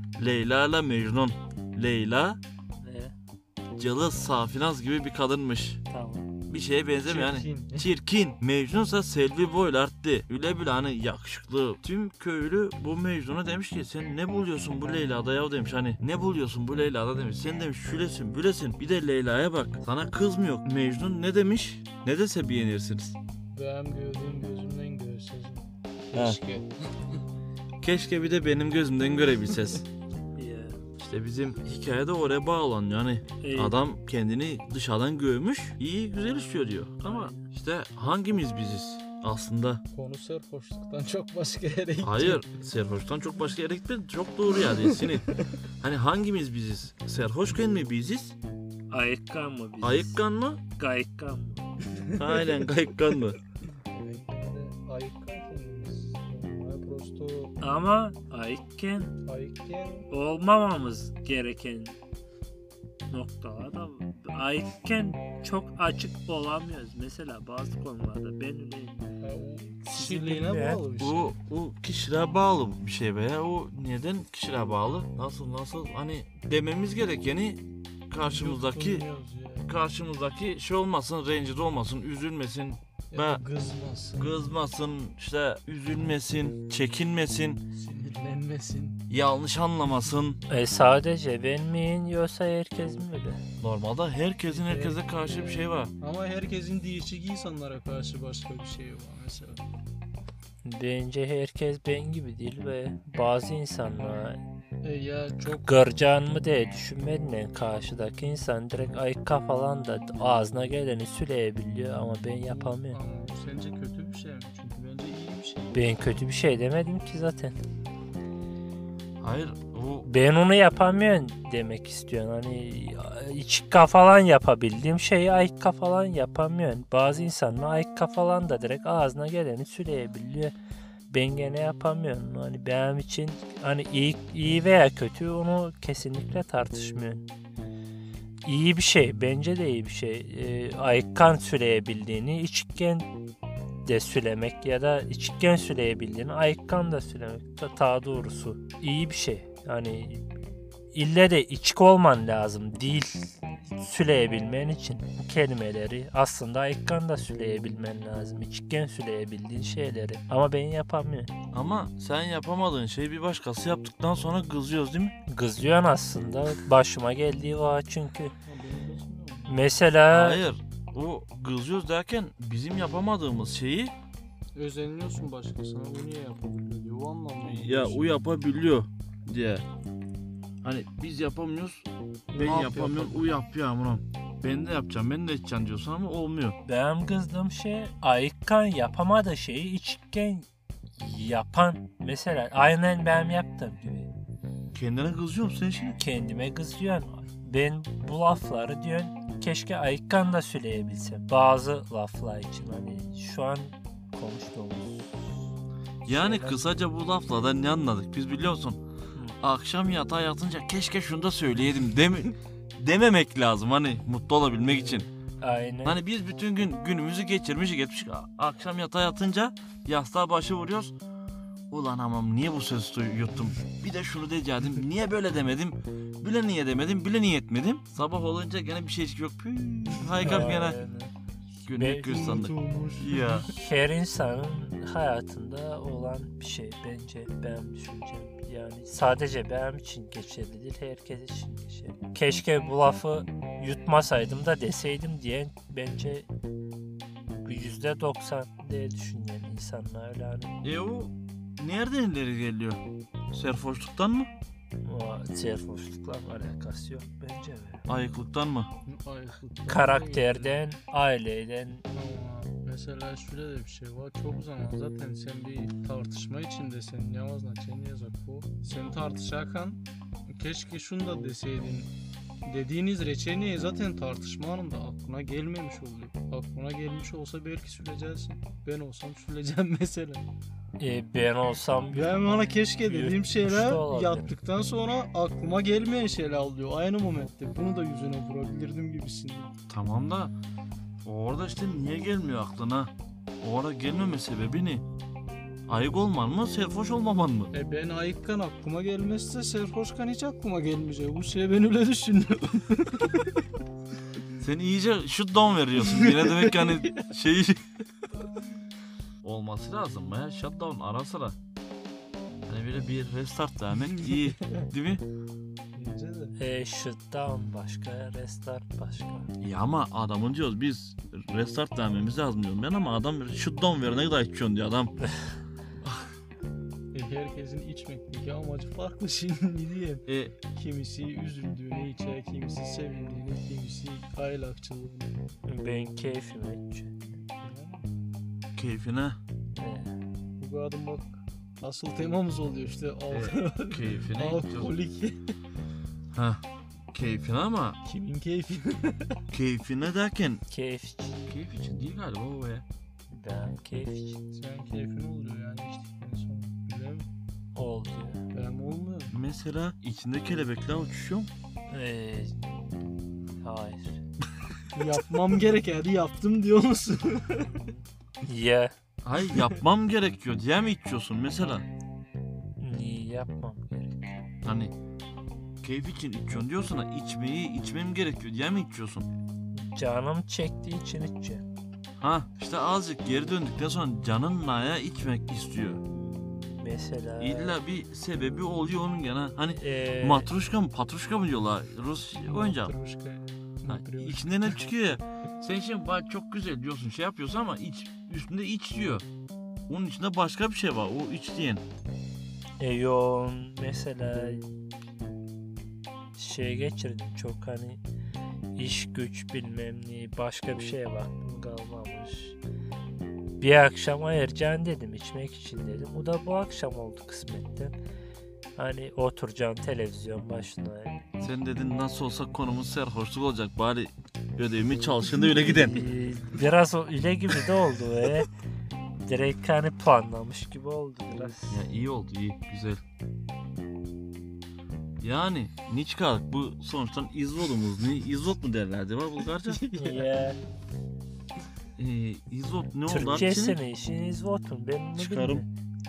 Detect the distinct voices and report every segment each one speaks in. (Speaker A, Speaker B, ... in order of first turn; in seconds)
Speaker A: 0.2-2.4, 3.8-5.8, 6.5-23.2, 27.8-29.9, 31.0-39.8, 42.0-48.4, 49.8-50.6, 52.2-53.4, 71.0-79.0, 79.7-83.4, 84.2-87.6, 89.1-90.4, 93.6-95.9, 119.2-120.1, 161.5-165.2, 170.1-173.9, 177.4-179.7, 180.6-186.6, 194.7-196.0, 206.1-208.8, 209.4-215.1, 215.8-220.9, 221.7-230.8, 231.6-233.5, 250.6-254.3, 257.9-258.7, 289.7-290.3, 291.1-294.9, 295.7-297.5, 304.4-307.6, 309.2-311.4, 312.5-315.0, 319.4-324.9, 330.1-330.4, 338.6-339.2, 343.1-344.7, 346.1-347.8, 349.3-350.4, 351.3-352.6, 359.1-361.3, 369.0-371.7, 374.4-374.7, 375.6-379.1, 382.0-385.8, 387.2-392.7, 393.7-399.1, 399.7-401.6, 421.2-425.9, 431.5-432.8, 435.0-439.6, 441.8-443.6, 445.0-445.4
Speaker B: 2.8-3.1, 5.9-6.3, 30.4-30.8, 33.4-33.8, 37.0-37.5, 48.9-50.2, 50.7-51.7, 57.6-59.2, 60.1-62.0, 63.1-69.1, 69.8-70.8, 90.5-93.4, 100.6-104.4, 105.5-113.0, 115.7-117.6, 120.0-130.5, 131.1-137.3, 138.4-143.1, 143.9-150.3, 150.9-161.3, 165.3-168.3, 169.5-170.4, 186.6-190.5, 191.0-194.1, 196.0-205.4, 206.0-206.7, 215.4-216.0, 230.2-231.1, 231.8-232.2, 233.5-246.3, 247.4-250.6, 254.8-257.9, 259.7-261.9, 280.8-284.3, 316.4-319.3, 325.0-325.3, 335.5-337.2, 339.6-339.9, 350.5-351.2, 353.1-354.2, 357.6-358.2, 361.7-362.9, 363.4-364.0, 367.6-368.7, 372.6-374.2, 379.5-381.4, 385.9-387.6, 389.6-390.3, 402.6-404.5, 406.2-407.8, 408.6-412.4, 413.4-417.8, 418.6-421.2, 425.4-428.3, 429.0-431.7, 439.8-440.4, 442.9-445.5
Speaker C: 7.0-7.9, 23.5-27.2, 39.9-42.4, 52.0-52.5, 53.9-57.6, 59.2-60.1, 69.2-71.3, 78.2-79.7, 83.1-84.5, 87.7-89.0, 94.5-99.6, 104.8-105.8, 112.5-115.8, 168.4-169.6, 174.6-178.2, 182.3-183.4, 230.1-230.7, 231.9-233.5, 258.9-260.6, 261.9-271.9, 272.4-280.2, 281.9-289.5, 297.5-303.4, 305.8-307.1, 313.9-314.7, 315.8-316.4, 326.9-335.2, 337.4-337.9, 340.4-345.3, 347.8-349.2, 354.3-357.1, 358.3-359.1, 364.7-367.7, 392.2-394.6, 439.4-440.1